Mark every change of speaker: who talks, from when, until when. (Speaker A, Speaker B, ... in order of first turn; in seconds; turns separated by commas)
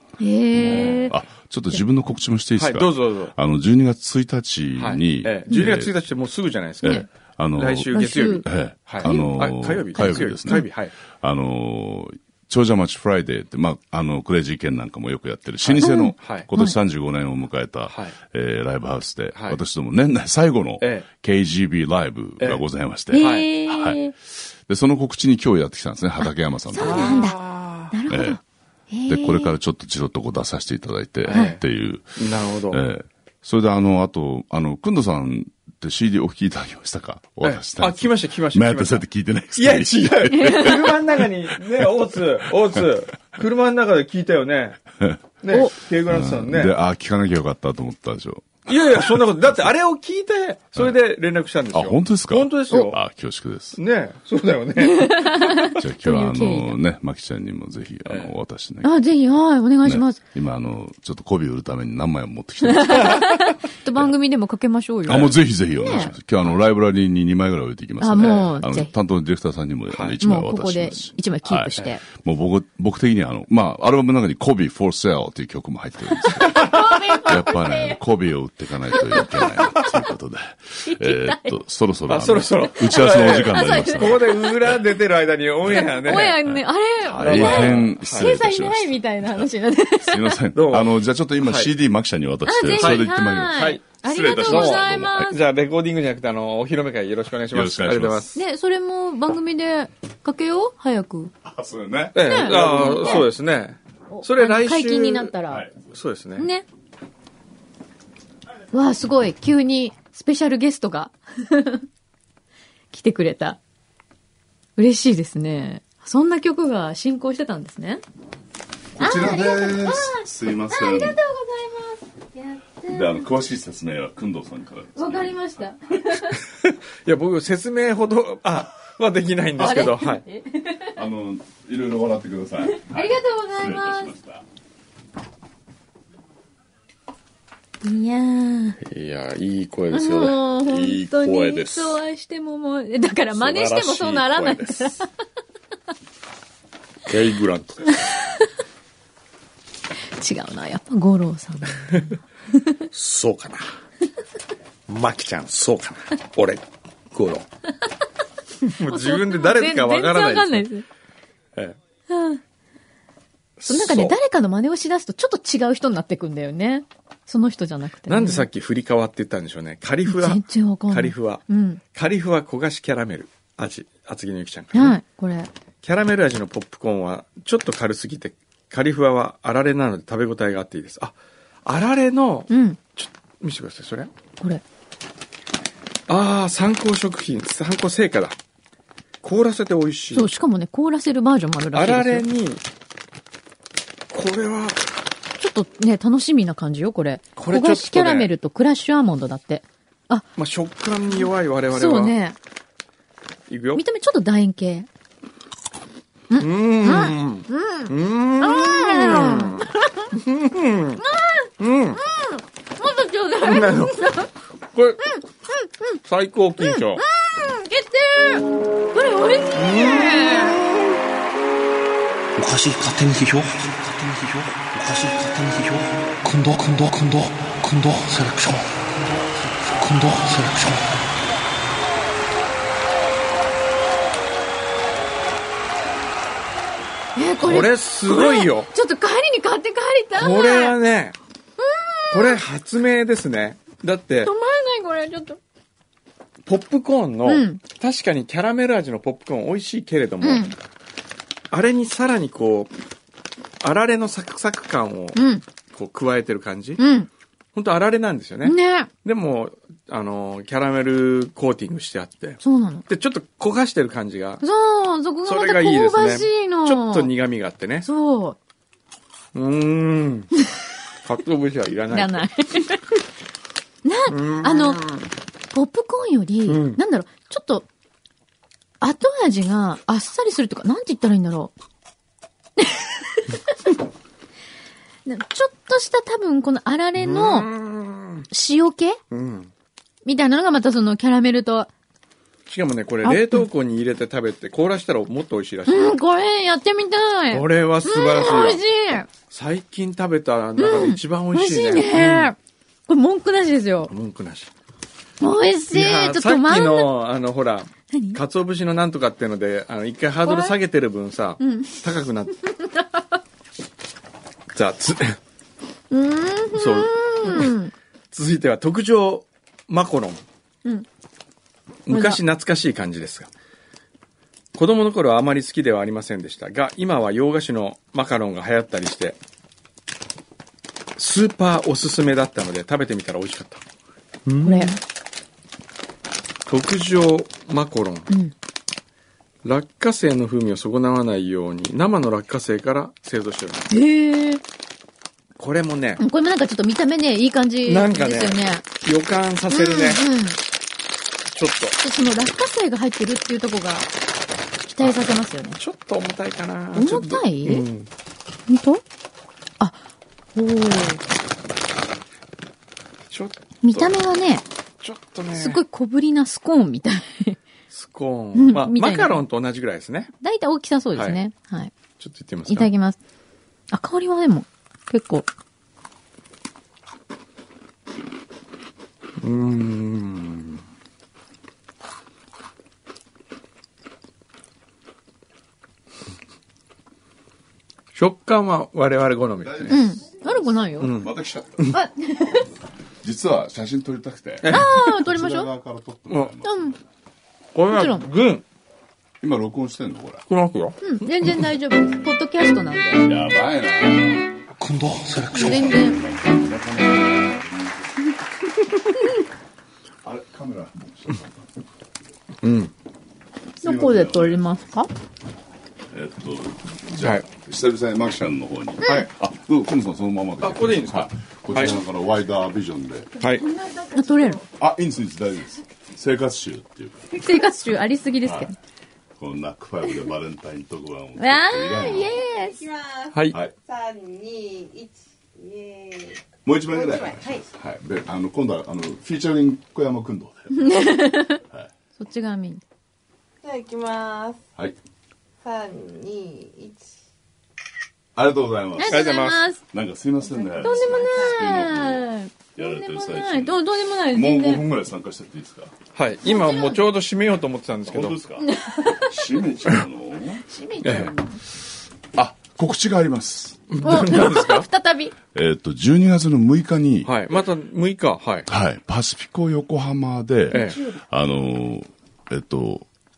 Speaker A: 0.2-1.2, Speaker B: 0.5-5.9, Speaker C: 0.7-1.1, Speaker C: 2.6-3.3, Speaker C: 4.8-10.9, Speaker B: 6.8-27.3, Speaker A: 7.9-8.4, Speaker A: 9.0-9.4, Speaker A: 10.0-10.7, Speaker C: 15.6-16.5, Speaker A: 15.8-16.8, Speaker C: 17.9-18.2, Speaker C: 19.3-19.6, Speaker C: 20.8-21.1, Speaker A: 23.1-24.1, Speaker C: 23.1-23.5, Speaker A: 26.2-27.4, Speaker C: 26.8-27.9, Speaker A: 27.9-29.6, Speaker B: 28.1-28.4, Speaker B: 29.1-41.9, Speaker C: 31.2-31.6, Speaker A: 31.3-31.6, Speaker C: 32.2-32.8, Speaker C: 37.4-44.8, Speaker A: 40.3-40.8, Speaker C: 45.4-46.7, Speaker B: 46.1-49.3, Speaker C: 48.7-53.0, Speaker B: 51.7-53.8, Speaker C: 53.8-55.7, Speaker A: 54.8-56.8, Speaker B: 55.7-59.0, Speaker C: 58.1-58.3, Speaker A: 58.8-60.2, Speaker B: 59.8-64.1, Speaker A: 62.6-66.1, Speaker B: 65.1-84.8, Speaker A: 68.0-68.9, Speaker C: 68.2-68.5, Speaker C: 69.9-70.2, Speaker A: 70.2-72.0, Speaker A: 76.4-78.0, Speaker C: 76.4-77.0, Speaker A: 78.9-79.7, Speaker A: 80.8-81.6, Speaker C: 82.1-86.4, Speaker A: 82.9-84.5, Speaker A: 85.7-90.4, Speaker B: 86.4-95.3, Speaker C: 87.2-88.3, Speaker C: 90.5-91.7, Speaker A: 92.5-95.4, Speaker C: 92.7-93.8, Speaker C: 94.4-98.4, Speaker B: 97.5-98.3, Speaker A: 98.3-101.3, Speaker B: 101.4-102.2, Speaker C: 102.2-105.4, Speaker A: 102.2-103.3, Speaker A: 104.1-105.7, Speaker B: 105.5-105.7, Speaker C: 105.9-106.5, Speaker A: 106.4-106.7, Speaker A: 108.7-111.8, Speaker A: 112.9-113.6, Speaker A: 114.8-118.0, Speaker B: 119.0-121.2, Speaker A: 119.0-123.2, Speaker B: 122.9-125.5, Speaker A: 125.0-126.4, Speaker C: 126.6-130.2, Speaker A: 129.6-130.9, Speaker B: 130.9-134.4, Speaker A: 132.6-134.1, Speaker A: 137.8-138.8, Speaker C: 138.8-142.0, Speaker A: 139.9-145.1, Speaker C: 143.3-144.9, Speaker C: 147.1-147.9, Speaker A: 147.9-148.4, Speaker A: 150.2-152.0, Speaker A: 152.6-152.8, Speaker C: 152.9-153.7, Speaker C: 154.9-157.5, Speaker C: 158.7-160.7, Speaker A: 158.8-160.8, Speaker A: 162.1-162.4, Speaker C: 163.6-164.2, Speaker A: 163.7-168.5, Speaker C: 168.1-175.0, Speaker A: 170.1-171.8, Speaker A: 174.7-175.5, Speaker C: 175.8-181.1, Speaker C: 181.7-184.1, Speaker A: 182.5-182.8, Speaker C: 186.1-188.4, Speaker C: 189.2-190.3, Speaker A: 190.1-192.3, Speaker C: 191.7-192.6, Speaker C: 194.1-194.8, Speaker A: 195.4-200.3, Speaker C: 197.4-198.3, Speaker C: 200.4-202.2, Speaker A: 201.2-202.4, Speaker C: 203.5-203.8, Speaker A: 203.8-204.9, Speaker A: 206.3-210.1, Speaker C: 206.4-211.0, Speaker A: 211.0-214.3, Speaker C: 211.6-212.0, Speaker C: 213.4-214.2, Speaker C: 214.7-215.1, Speaker A: 215.0-216.0, Speaker C: 216.1-217.0, Speaker A: 216.6-220.6, Speaker C: 219.5-221.0, Speaker D: 222.4-231.1, Speaker A: 237.2-240.8, Speaker C: 237.4-238.7, Speaker C: 240.2-241.2, Speaker A: 241.6-242.4, Speaker C: 242.1-244.3, Speaker A: 244.2-245.4, Speaker C: 246.5-250.5, Speaker A: 247.3-247.6, Speaker A: 250.2-250.5, Speaker C: 251.5-252.7, Speaker C: 253.6-255.2, Speaker A: 255.2-255.4, Speaker C: 255.7-256.8, Speaker A: 256.8-257.1, Speaker C: 257.5-264.4, Speaker A: 258.4-258.9, Speaker A: 262.4-262.9, Speaker A: 264.4-267.1, Speaker C: 265.2-267.9, Speaker A: 267.8-268.4, Speaker C: 269.3-270.3, Speaker C: 271.0-272.3, Speaker A: 271.9-272.9, Speaker A: 273.9-274.8, Speaker C: 274.1-275.1, Speaker A: 275.5-277.7, Speaker C: 276.5-276.8, Speaker A: 278.8-281.5, Speaker A: 282.6-283.3, Speaker A: 285.1-287.5, Speaker C: 287.0-288.3, Speaker A: 288.3-289.0, Speaker C: 289.1-289.5, Speaker A: 290.1-291.7, Speaker C: 292.5-295.9, Speaker A: 293.0-293.4, Speaker A: 295.7-299.1, Speaker C: 297.3-298.6, Speaker C: 299.3-302.3, Speaker A: 300.6-302.4, Speaker A: 302.9-303.9, Speaker C: 303.9-304.5, Speaker A: 305.2-306.9, Speaker C: 305.7-312.3, Speaker A: 307.9-308.2, Speaker A: 310.2-310.6, Speaker A: 311.4-311.8, Speaker A: 312.5-313.0, Speaker C: 314.5-315.2, Speaker A: 315.9-317.7, Speaker C: 316.6-317.6, Speaker C: 318.1-320.2, Speaker C: 321.9-323.3, Speaker A: 321.9-322.2, Speaker C: 324.6-329.2, Speaker C: 331.0-333.6, Speaker C: 334.3-334.8, Speaker A: 334.4-334.8, Speaker C: 336.5-338.1, Speaker C: 339.4-343.7, Speaker A: 343.7-344.4, Speaker C: 345.4-346.0, Speaker A: 346.0-348.6, Speaker C: 347.7-350.0, Speaker A: 349.5-350.4, Speaker C: 351.3-351.8, Speaker A: 351.8-353.9, Speaker A: 354.7-355.6, Speaker C: 355.6-357.9, Speaker A: 356.8-357.7, Speaker A: 358.5-358.8, Speaker A: 360.4-361.0, Speaker C: 363.1-363.9, Speaker A: 363.6-364.4, Speaker C: 364.8-365.6, Speaker A: 365.4-367.4, Speaker C: 367.7-370.1, Speaker A: 368.4-369.2, Speaker A: 370.2-371.7, Speaker C: 372.0-372.7, Speaker A: 372.5-373.0, Speaker A: 373.7-375.3, Speaker C: 379.2-380.6, Speaker C: 387.9-389.8, Speaker B: 389.4-389.9, Speaker A: 389.7-391.0, Speaker C: 390.8-391.8, Speaker B: 391.0-391.8, Speaker A: 391.7-392.5, Speaker B: 393.0-396.8, Speaker C: 394.4-395.0, Speaker A: 394.5-395.5, Speaker A: 396.4-396.8, Speaker C: 397.6-398.4, Speaker A: 397.7-398.1, Speaker B: 399.2-400.2, Speaker C: 400.3-400.9, Speaker A: 400.8-403.1, Speaker B: 403.0-404.4, Speaker D: 404.6-406.0, Speaker A: 405.4-406.0, Speaker B: 405.4-408.0, Speaker B: 410.0-411.4, Speaker C: 412.4-412.7, Speaker B: 413.6-414.4, Speaker A: 413.6-414.9, Speaker B: 415.9-423.1, Speaker C: 417.0-417.3, Speaker C: 420.4-421.8, Speaker C: 423.2-423.5, Speaker E: 423.5-424.4, Speaker A: 423.9-424.4, Speaker B: 424.6-427.2, Speaker A: 427.1-428.6, Speaker B: 428.2-428.5, Speaker B: 429.2-432.1, Speaker A: 431.2-432.7, Speaker E: 432.3-437.4, Speaker B: 436.4-440.8, Speaker A: 440.5-441.4, Speaker A: 442.0-442.6, Speaker E: 443.4-444.4, Speaker E: 445.4-446.9, Speaker B: 448.2-449.2, Speaker A: 448.8-449.6, Speaker C: 448.9-449.5, Speaker B: 449.7-452.1, Speaker E: 450.3-451.5, Speaker A: 450.6-454.6, Speaker B: 452.6-455.7, Speaker C: 455.9-458.2, Speaker A: 456.2-456.8, Speaker B: 457.9-461.1, Speaker A: 458.4-459.2, Speaker A: 460.5-461.4, Speaker C: 460.8-461.1, Speaker B: 462.1-463.8, Speaker C: 463.7-464.7, Speaker A: 463.8-465.1, Speaker B: 465.3-467.1, Speaker C: 467.0-468.5, Speaker B: 468.5-472.9, Speaker A: 470.5-471.0, Speaker C: 470.5-470.8